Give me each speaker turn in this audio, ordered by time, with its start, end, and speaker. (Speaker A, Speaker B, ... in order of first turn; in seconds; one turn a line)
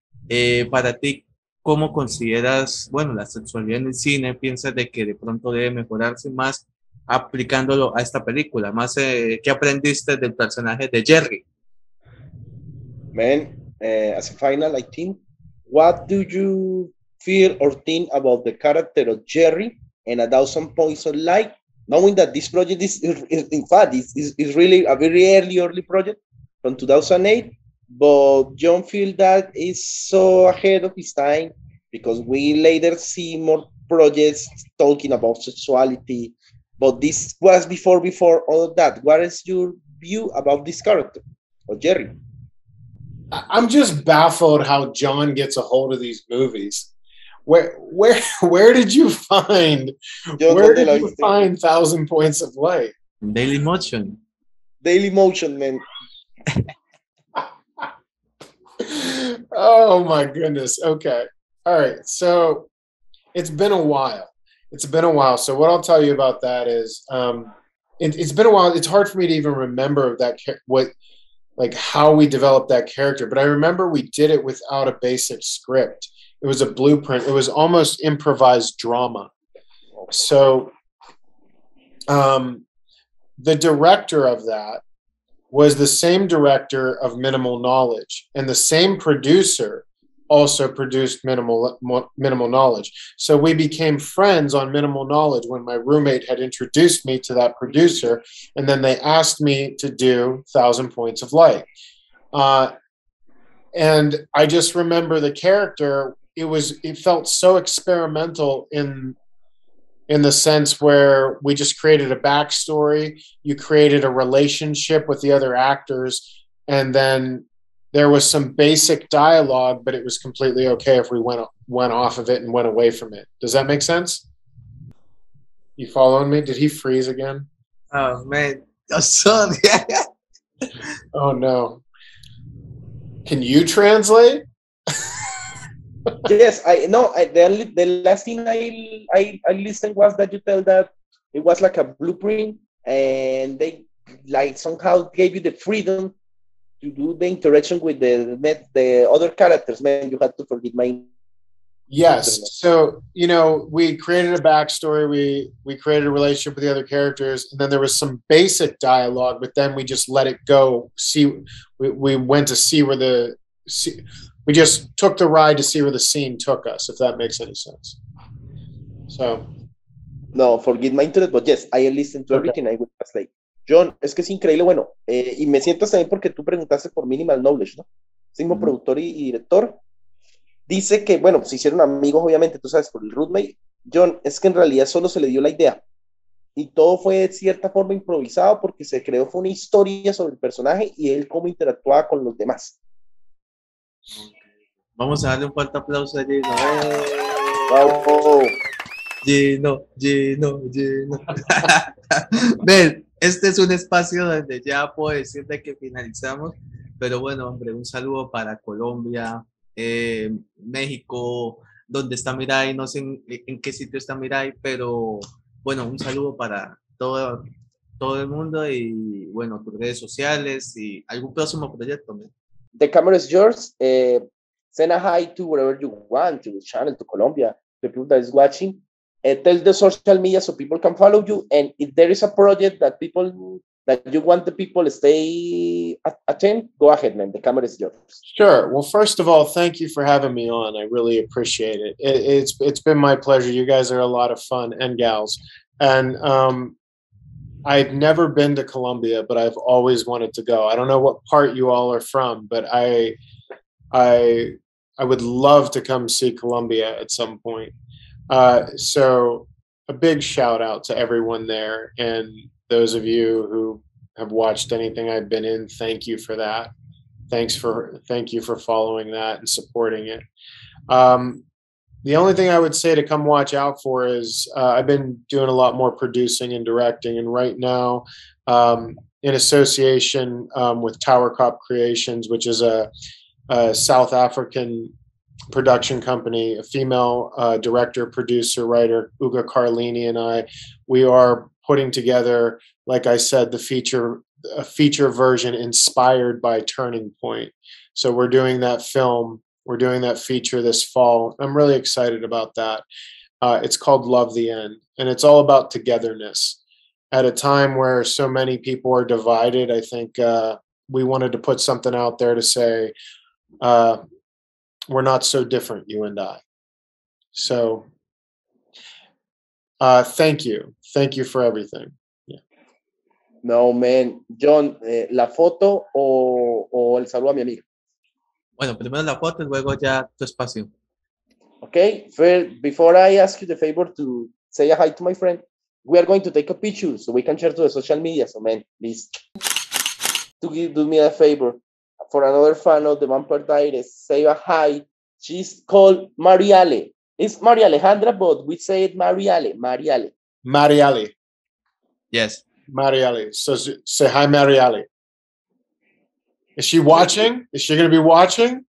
Speaker A: 0.3-11.4
Speaker B: 13.1-15.2
Speaker B: 15.7-42.2
Speaker C: 43.3-46.9
Speaker C: 47.5-52.9
Speaker B: 50.4-51.4
Speaker A: 53.2-54.2
Speaker B: 54.8-55.8
Speaker C: 58.8-62.7
Speaker C: 63.3-70.9
Speaker C: 71.6-79.3
Speaker B: 79.9-80.3
Speaker C: 80.1-80.7
Speaker C: 82.1-82.6
Speaker C: 83.4-84.8
Speaker C: 85.5-101.7
Speaker C: 102.3-102.7
Speaker C: 103.8-109.2
Speaker C: 110.1-124.2
Speaker C: 125.8-127.5
Speaker A: 127.9-130.0
Speaker C: 131.1-131.8
Speaker C: 133.2-134.4
Speaker B: 136.2-146.1
Speaker B: 146.8-151.1
Speaker C: 151.9-168.0
Speaker B: 152.2-152.5
Speaker C: 169.1-169.4
Speaker B: 170.3-179.8
Speaker B: 180.7-185.8
Speaker B: 186.6-192.8
Speaker A: 195.0-198.0
Speaker B: 197.7-198.5
Speaker A: 199.2-217.5
Speaker A: 218.0-222.3
Speaker B: 222.8-238.2
Speaker C: 238.2-246.8
Speaker C: 247.7-253.2
Speaker C: 253.9-257.7
Speaker C: 258.3-266.7
Speaker C: 267.3-270.2
Speaker C: 270.9-271.4
Speaker C: 272.0-282.9
Speaker C: 283.5-284.9
Speaker C: 285.5-302.8
Speaker C: 303.4-306.6
Speaker C: 307.1-312.9
Speaker C: 313.6-314.0
Speaker C: 314.9-316.4
Speaker C: 317.3-317.9
Speaker C: 319.8-322.4
Speaker B: 323.4-327.6
Speaker A: 328.6-330.7
Speaker B: 331.6-339.2
Speaker B: 340.4-350.1
Speaker C: 350.4-351.1
Speaker A: 352.1-352.4
Speaker C: 352.7-354.9
Speaker C: 356.6-358.6